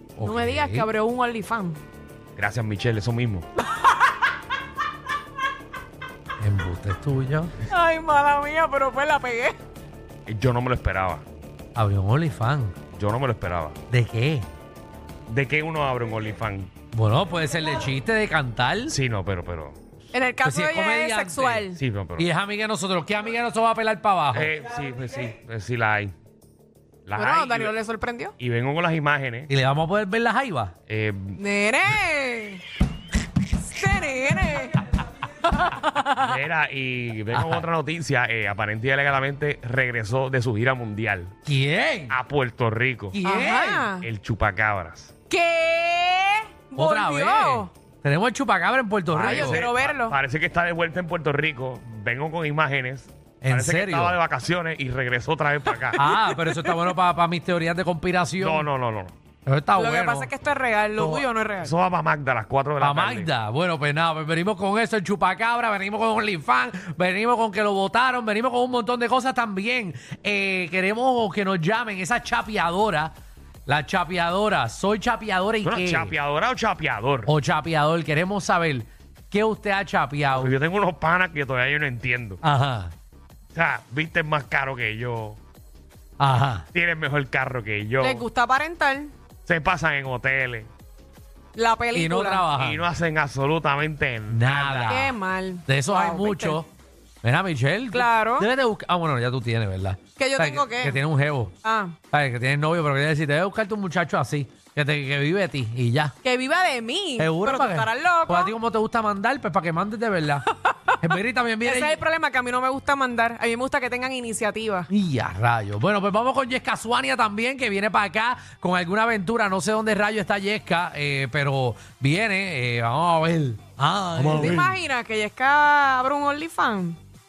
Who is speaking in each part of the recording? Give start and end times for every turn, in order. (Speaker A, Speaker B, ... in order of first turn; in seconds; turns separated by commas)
Speaker A: 0.2-0.9, Speaker B: 0.2-1.8, Speaker C: 2.4-3.4, Speaker A: 6.4-7.5, Speaker B: 7.7-9.6, Speaker C: 10.2-11.2, Speaker A: 11.7-12.8, Speaker C: 12.9-13.8, Speaker A: 13.9-14.5, Speaker C: 15.3-16.7, Speaker A: 16.9-18.9, Speaker C: 18.9-19.8, Speaker B: 20.1-21.8, Speaker A: 20.4-24.5, Speaker C: 21.7-22.3, Speaker C: 24.3-26.1, Speaker C: 27.0-27.7, Speaker B: 27.1-28.3, Speaker C: 28.4-29.5, Speaker A: 29.5-30.7, Speaker C: 30.9-31.4, Speaker B: 31.4-32.6, Speaker B: 33.6-34.8, Speaker B: 35.5-36.2, Speaker C: 36.2-41.4, Speaker A: 37.3-37.7, Speaker A: 41.5-42.1, Speaker C: 42.1-43.2, Speaker A: 43.1-43.9, Speaker B: 43.2-44.0, Speaker C: 44.0-45.1, Speaker B: 45.3-47.7, Speaker A: 46.8-49.6, Speaker C: 49.1-56.0, Speaker B: 49.2-50.1, Speaker A: 53.4-54.2, Speaker A: 55.9-58.7, Speaker B: 56.0-56.8, Speaker C: 58.4-59.1, Speaker A: 59.5-60.3, Speaker B: 59.8-61.7, Speaker A: 61.0-61.3, Speaker C: 61.6-63.3, Speaker A: 62.8-73.1, Speaker A: 73.7-76.1, Speaker C: 75.6-77.3, Speaker A: 77.2-80.5, Speaker C: 80.3-82.4, Speaker A: 82.4-82.9, Speaker C: 83.5-85.4, Speaker A: 86.2-86.7, Speaker C: 86.7-88.2, Speaker B: 88.0-89.1, Speaker C: 89.5-90.7, Speaker B: 91.5-92.5, Speaker A: 91.9-92.8, Speaker C: 92.5-95.1, Speaker A: 94.3-96.7, Speaker B: 94.9-96.6, Speaker A: 97.2-101.5, Speaker B: 97.9-98.5, Speaker B: 100.2-101.0, Speaker B: 101.6-102.0, Speaker A: 102.1-106.1, Speaker B: 106.2-108.5, Speaker A: 107.2-110.5, Speaker B: 110.6-111.1, Speaker A: 111.0-112.0, Speaker B: 111.6-114.9, Speaker A: 114.9-124.6, Speaker C: 124.1-124.8, Speaker B: 124.3-127.0